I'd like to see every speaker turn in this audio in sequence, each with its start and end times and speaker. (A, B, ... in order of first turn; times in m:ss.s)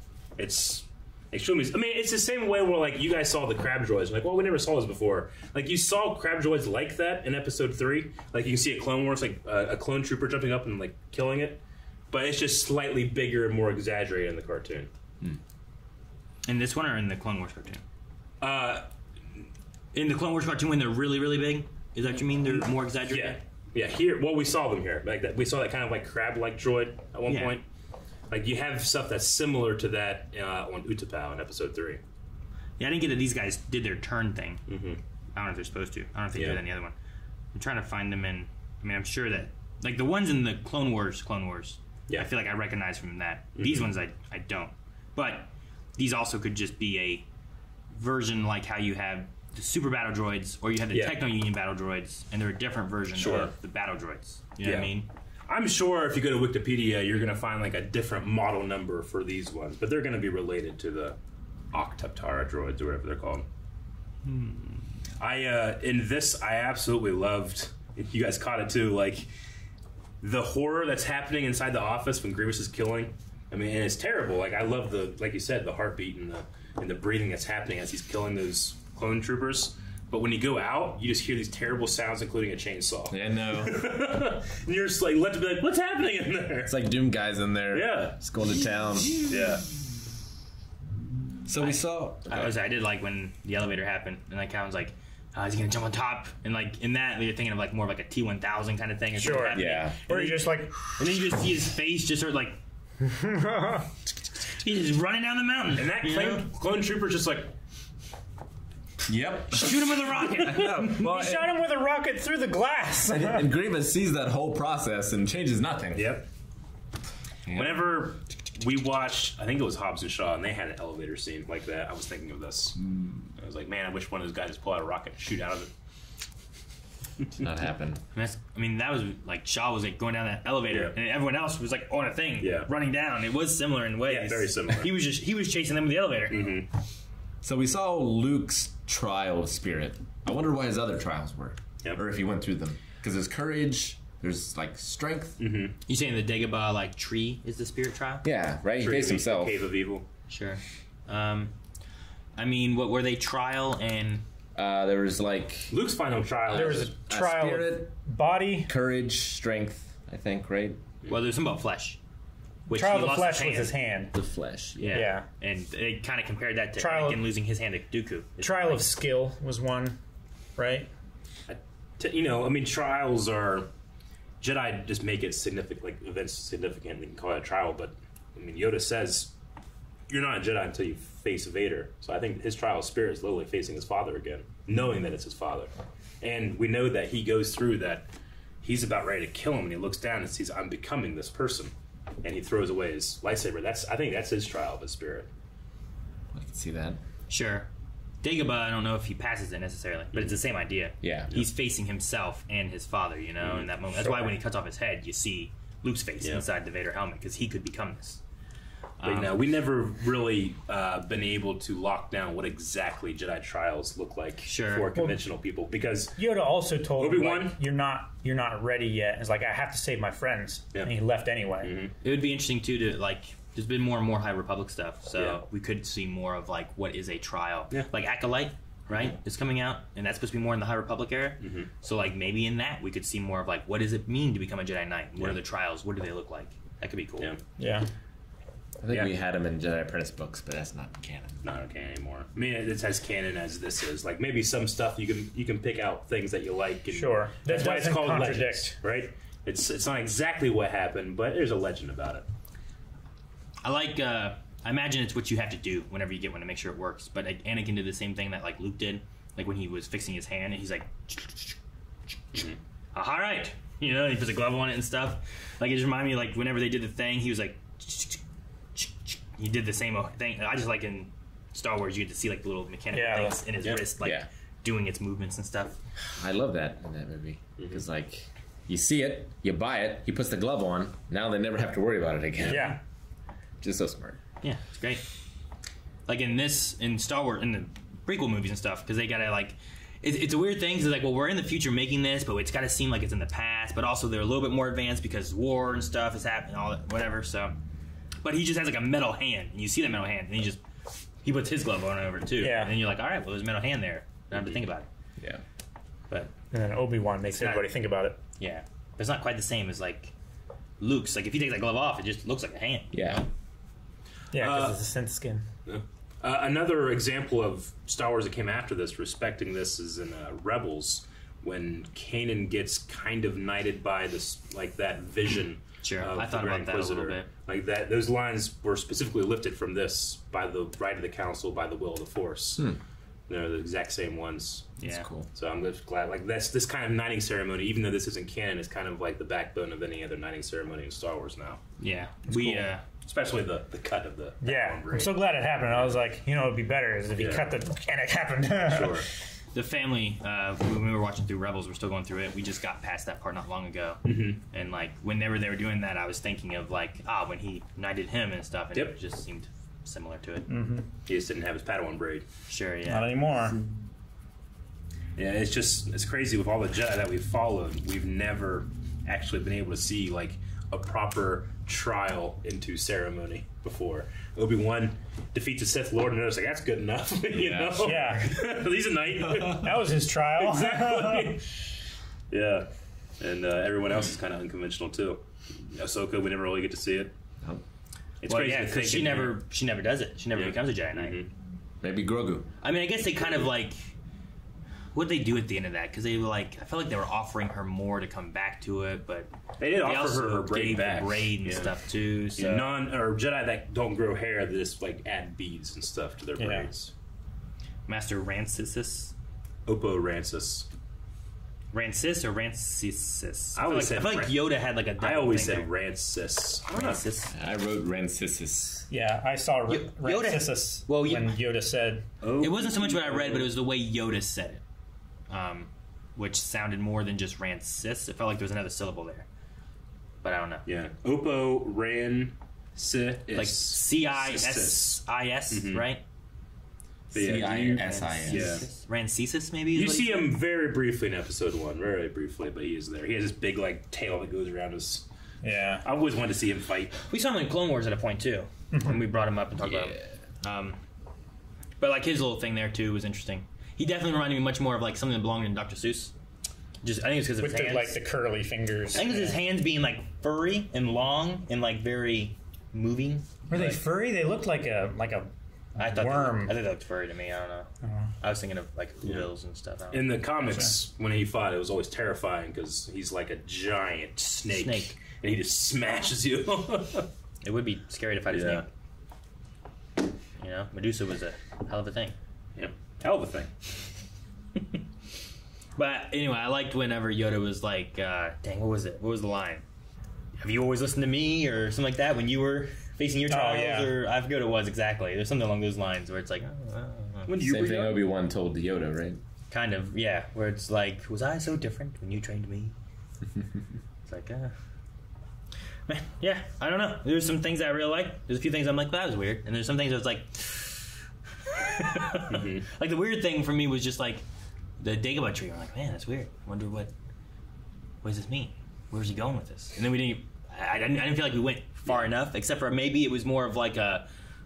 0:00.4-0:14.9 A
0:16.4-0:17.8 B
0:18.4-0:18.9 A
0:19.9-0:23.4 B
0:22.6-0:27.6 A
0:27.3-0:27.6 B
0:28.3-0:32.0 A
0:32.8-0:34.6 B
0:34.7-0:35.0 A
0:35.3-0:36.9 B
0:36.3-0:36.6 A
0:37.6-0:47.2 B
0:43.6-0:43.9 A
0:47.9-0:55.1 B
0:50.9-0:51.2 A
0:53.2-0:53.5 A
0:54.6-0:54.9 A
0:55.5-1:01.2 A
1:01.7-1:03.4 A
1:05.2-1:09.3 A
1:10.2-1:26.7 A
1:23.1-1:23.8 C
1:26.7-1:29.2 C
1:27.7-1:28.2 A
1:29.2-1:29.6 A
1:31.4-1:32.5 C
1:31.6-1:42.6 B
1:39.2-1:40.9 D
1:39.5-1:40.0 C
1:43.1-1:43.9 D
1:44.5-1:46.4 B
1:45.8-1:47.5 A
1:49.1-1:51.4 C
1:49.5-1:51.2 B
1:50.8-1:53.4 D
1:53.1-1:56.2 C
1:55.9-1:56.3 A
1:57.5-1:57.9 C
1:57.5-2:02.8 A
2:03.4-2:05.7 A
2:07.4-2:08.0 C
2:08.1-2:16.5 B
2:10.7-2:10.9 A
2:12.4-2:12.7 A
2:14.0-2:14.9 A
2:16.3-2:16.7 A
2:17.4-2:25.4 C
2:25.4-2:25.7 A
2:25.9-2:28.2 B
2:28.2-2:29.6 C
2:28.8-2:30.0 A
2:30.3-2:31.5 B
2:32.4-2:34.2 B
2:34.6-2:35.8 C
2:35.7-2:36.9 A
2:36.5-2:37.9 C
2:36.5-2:38.7 D
2:38.6-2:40.8 C
2:41.1-2:42.0 B
2:42.7-2:43.7 B
2:42.7-2:44.1 D
2:44.1-2:45.0 C
2:44.8-2:48.9 B
2:44.9-2:45.3 D
2:46.8-2:47.2 D
2:48.4-2:50.0 D
2:50.6-2:50.9 D
2:51.5-2:53.7 A
2:54.4-2:59.3 A
3:00.1-3:08.1 A
3:08.6-3:11.7 A
3:12.2-3:15.3 A
3:16.3-3:17.0 C
3:17.3-3:17.7 B
3:18.2-3:28.2 B
3:21.0-3:21.3 C
3:23.4-3:23.7 A
3:24.0-3:24.4 D
3:29.0-3:29.3 B
3:29.0-3:36.2 A
3:34.4-3:34.9 B
3:36.2-3:41.7 D
3:37.0-3:37.6 A
3:41.6-3:41.9 A
3:42.0-3:57.3 B
3:45.2-3:45.4 A
3:51.4-3:51.7 A
3:57.6-3:57.9 D
3:58.8-4:01.4 C
4:01.4-4:12.2 A
4:06.9-4:08.8 D
4:13.6-4:21.6 B
4:22.9-4:28.2 B
4:28.8-4:35.8 B
4:32.9-4:33.4 D
4:34.0-4:34.3 C
4:36.2-4:42.7 C
4:37.6-4:37.8 A
4:42.5-4:42.8 D
4:43.6-4:44.2 C
4:44.4-4:45.0 B
4:46.1-4:57.6 B
4:58.2-5:00.6 B
5:01.2-5:04.9 B
5:02.4-5:02.7 D
5:06.5-5:08.2 D
5:07.3-5:07.7 B
5:08.4-5:10.1 B
5:10.8-5:13.3 B
5:12.9-5:13.2 C
5:14.3-5:15.4 D
5:14.3-5:14.8 A
5:15.7-5:32.6 A
5:25.8-5:27.3 B
5:33.3-5:34.7 A
5:34.8-5:35.3 C
5:34.8-5:35.1 B
5:35.3-5:41.6 A
5:41.8-5:42.8 B
5:42.3-5:42.6 D
5:43.0-5:45.9 A
5:44.4-5:49.0 D
5:47.2-5:47.5 A
5:48.6-5:49.1 A
5:49.5-6:00.5 B
5:54.0-5:54.4 A
6:00.5-6:00.9 D
6:01.1-6:02.2 A
6:02.5-6:03.1 B
6:02.9-6:03.6 D
6:05.2-6:19.7 A
6:17.3-6:18.1 C
6:17.8-6:18.4 D
6:19.5-6:21.4 D
6:20.4-6:21.4 A
6:22.3-6:22.7 A
6:23.2-6:25.2 A
6:25.7-6:27.1 A
6:28.2-6:29.4 A
6:28.3-6:31.2 B
6:30.3-6:31.3 A
6:31.8-6:32.5 C
6:32.6-6:33.9 B
6:34.9-6:39.3 B
6:39.6-6:41.7 A
6:39.8-6:42.7 B
6:42.4-6:46.9 A
6:46.4-6:46.7 D
6:47.9-6:49.1 B
6:49.6-6:50.7 A
6:51.7-6:55.7 B
6:53.6-6:54.4 A
6:55.0-6:57.0 A
6:56.7-6:57.3 B
6:57.3-6:58.9 C
6:58.9-7:02.0 D
6:59.7-7:01.3 B
7:02.2-7:03.5 A
7:02.4-7:04.6 B
7:05.3-7:09.3 B
7:10.2-7:10.6 B
7:10.6-7:15.9 A
7:13.3-7:16.0 B
7:17.1-7:18.6 C
7:17.1-7:18.6 A
7:17.2-7:20.3 B
7:19.7-7:25.1 A
7:25.4-7:25.9 D
7:25.8-7:26.9 A
7:27.1-7:30.8 B
7:28.7-7:29.0 D
7:29.6-7:30.0 C
7:31.8-7:36.1 B
7:36.8-7:38.0 B
7:37.4-7:39.4 D
7:38.9-7:43.8 B
7:43.5-7:46.6 D
7:45.8-7:47.7 B
7:47.8-7:48.1 D
7:48.2-7:50.0 B
7:49.9-7:57.1 A
7:54.5-7:54.9 B
7:57.4-7:58.6 B
7:58.3-7:58.6 A
8:00.4-8:02.1 B
8:02.6-8:03.7 A
8:05.8-8:09.6 B
8:10.4-8:17.3 B
8:13.3-8:14.0 D
8:17.3-8:18.0 A
8:17.4-8:19.2 C
8:19.5-8:22.7 B
8:24.1-8:24.5 B
8:25.9-8:30.9 B
8:31.6-8:34.2 B
8:32.3-8:32.6 A
8:34.8-8:36.9 B
8:38.0-8:44.0 B